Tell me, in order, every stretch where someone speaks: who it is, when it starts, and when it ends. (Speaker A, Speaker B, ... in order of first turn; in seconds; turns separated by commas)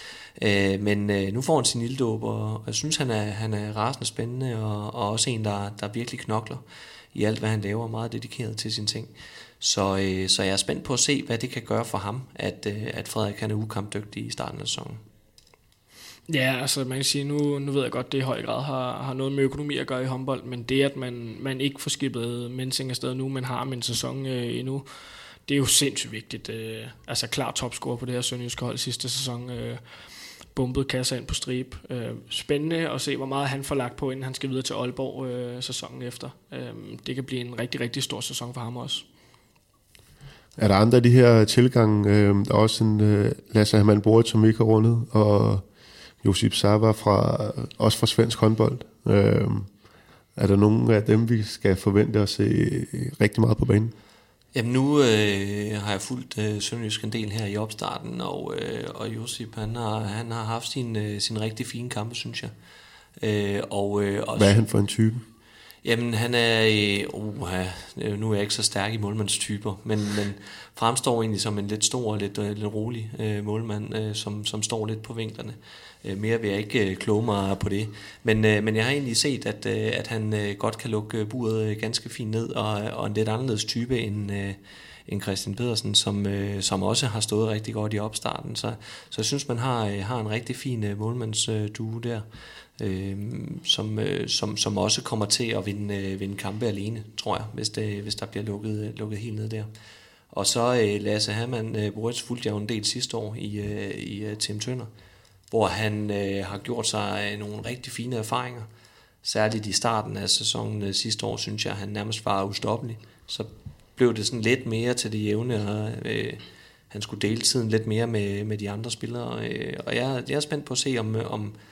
Speaker A: 0.3-6.6, Speaker A: 7.1-15.0, Speaker B: 16.3-39.0, Speaker C: 40.6-45.6, Speaker C: 46.2-49.7, Speaker C: 50.4-53.9, Speaker A: 54.5-62.5, Speaker A: 63.2-64.6, Speaker C: 64.3-65.2, Speaker A: 65.8-92.2, Speaker A: 92.8-99.7, Speaker A: 100.3-104.9, Speaker A: 105.5-108.7, Speaker A: 109.2-121.5